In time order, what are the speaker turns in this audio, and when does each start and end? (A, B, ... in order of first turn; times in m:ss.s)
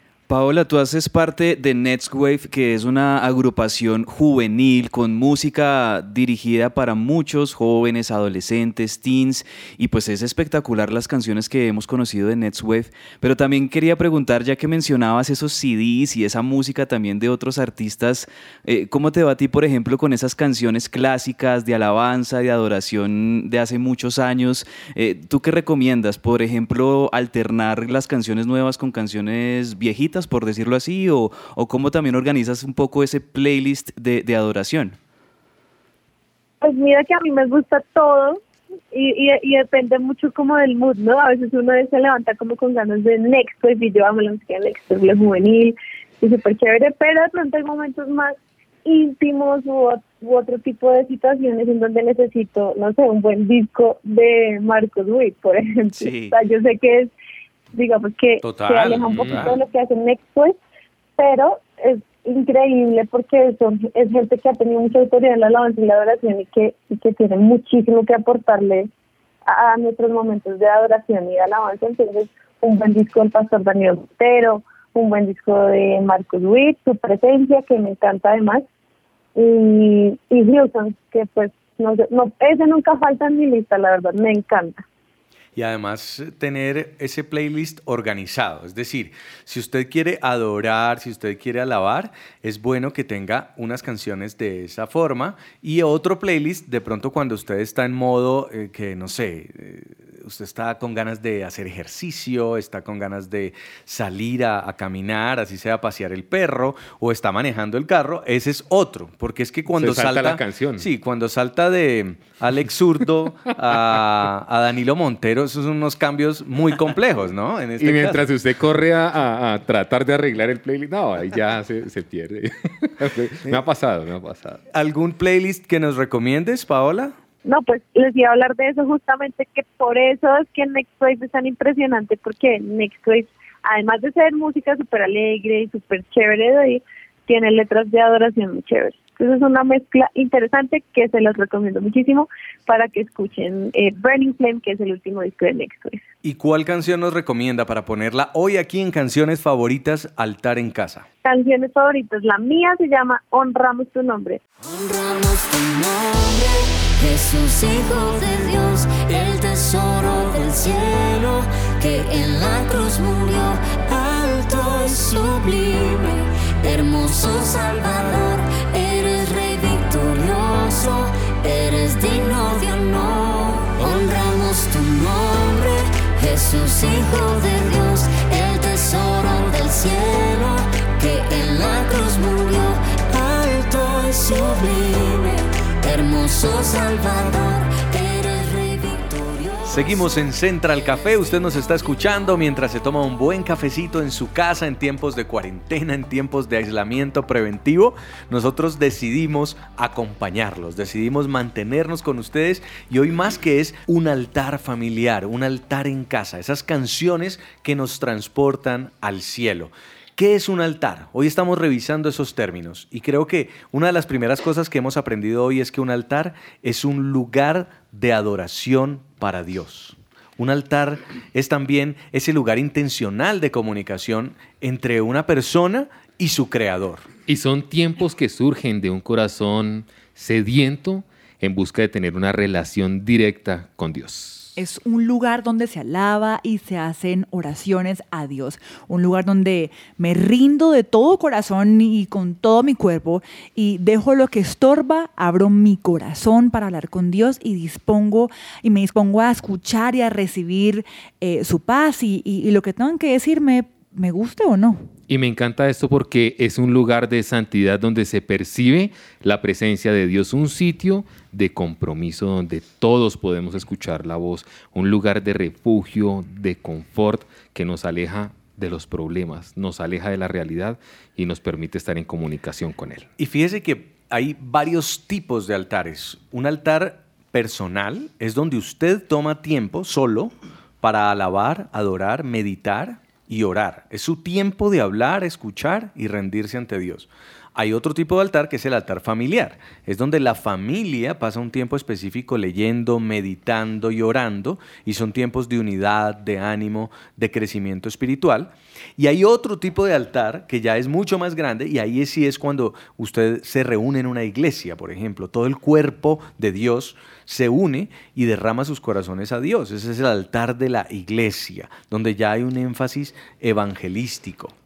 0:00.3-0:35.0 A
0:36.6-0:57.1 B
0:56.0-0:56.3 A
0:57.7-1:00.6 B
0:58.4-0:59.6 C
1:01.2-1:08.9 B
1:09.4-1:18.6 B
1:19.4-1:24.8 B
1:25.6-1:58.2 C
1:49.7-1:50.9 D
1:57.8-2:04.6 D
2:04.7-2:07.1 C
2:07.4-2:26.0 B
2:26.2-2:31.0 C
2:31.2-2:34.4 B
2:34.6-3:10.2 E
3:09.6-3:47.1 C
3:10.8-3:11.6 E
3:47.3-3:54.6 D
3:54.6-4:14.9 F
4:15.1-4:33.1 D
4:33.2-5:14.5 C